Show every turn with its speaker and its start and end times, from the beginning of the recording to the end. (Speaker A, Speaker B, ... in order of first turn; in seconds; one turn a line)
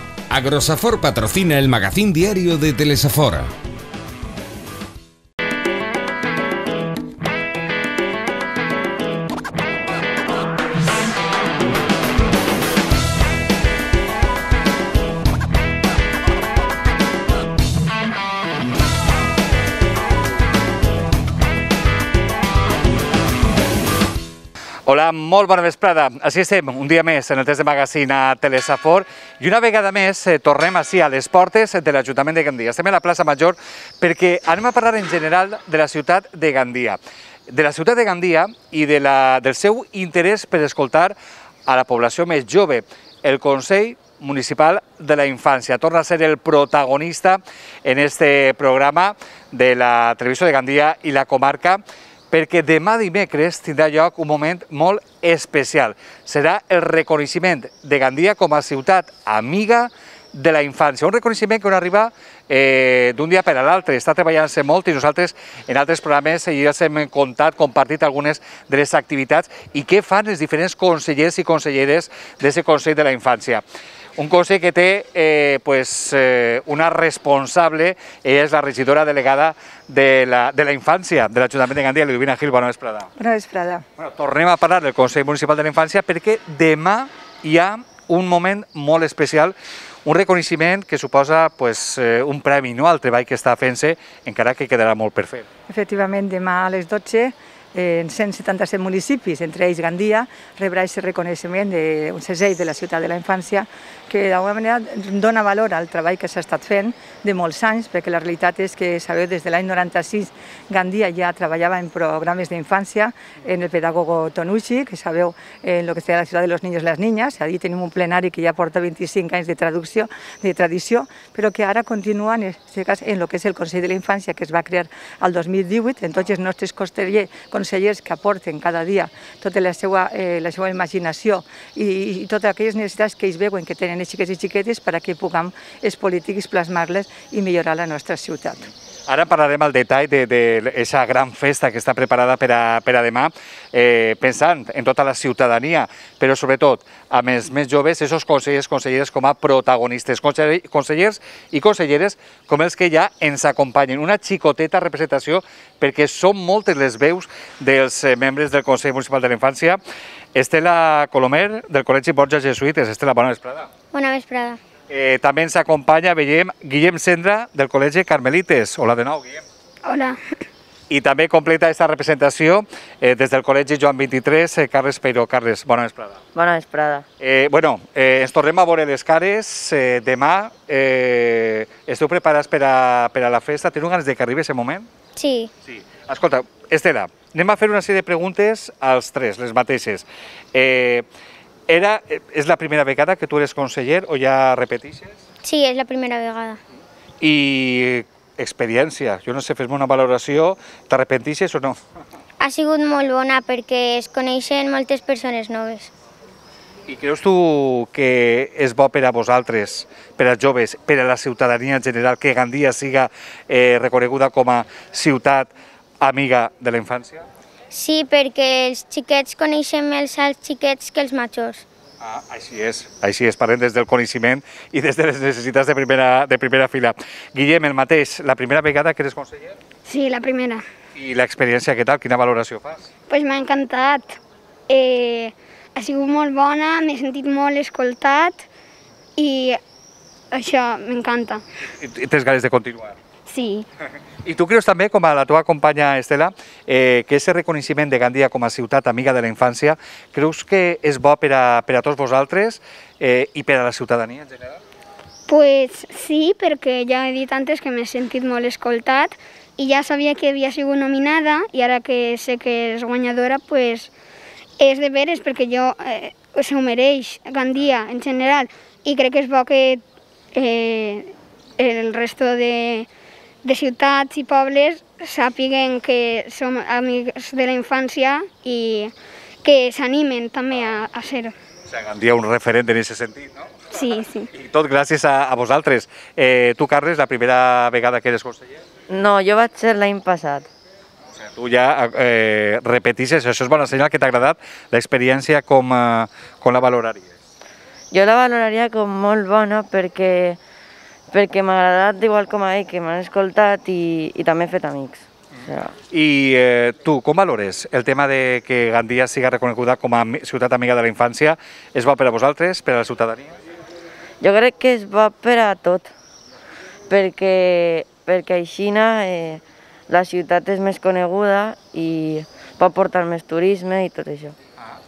Speaker A: 0.3-3.5
Speaker B: 24.9-41.2
Speaker B: 41.7-73.6
Speaker B: 74.2-83.1
Speaker C: 83.2-83.8
Speaker B: 84.0-89.5
Speaker B: 90.0-95.5
Speaker C: 95.7-138.7
Speaker B: 139.1-159.8
Speaker B: 160.3-163.7
Speaker D: 163.9-164.6
Speaker B: 164.9-169.4
Speaker E: 169.8-170.1
Speaker B: 170.9-176.2
Speaker F: 176.3-177.1
Speaker B: 177.2-184.9
Speaker D: 185.2-185.5
Speaker B: 185.7-191.1
Speaker B: 191.7-195.2
Speaker D: 195.4-196.6
Speaker B: 197.2-201.8
Speaker D: 202.4-205.9
Speaker B: 206.9-217.3
Speaker D: 217.7-221.7
Speaker B: 222.0-229.6
Speaker E: 229.9-230.6
Speaker B: 230.9-232.9
Speaker E: 233.1-234.1
Speaker E: 234.7-238.4
Speaker E: 239.2-239.6
Speaker E: 240.3-241.4
Speaker B: 241.8-243.0
Speaker E: 243.3-243.7
Speaker B: 244.2-254.6
Speaker E: 255.3-263.9
Speaker E: 264.6-269.8
Speaker E: 270.4-271.1
Speaker E: 271.6-272.8
Speaker E: 273.4-278.9
Speaker E: 279.4-281.3
Speaker B: 281.7-283.7
Speaker E: 283.7-284.2
Speaker B: 284.3-288.6
Speaker F: 288.9-290.5
Speaker B: 291.4-297.1
Speaker F: 297.9-300.4
Speaker F: 301.1-305.7
Speaker B: 305.9-313.4
Speaker F: 314.2-315.9
Speaker F: 316.9-324.4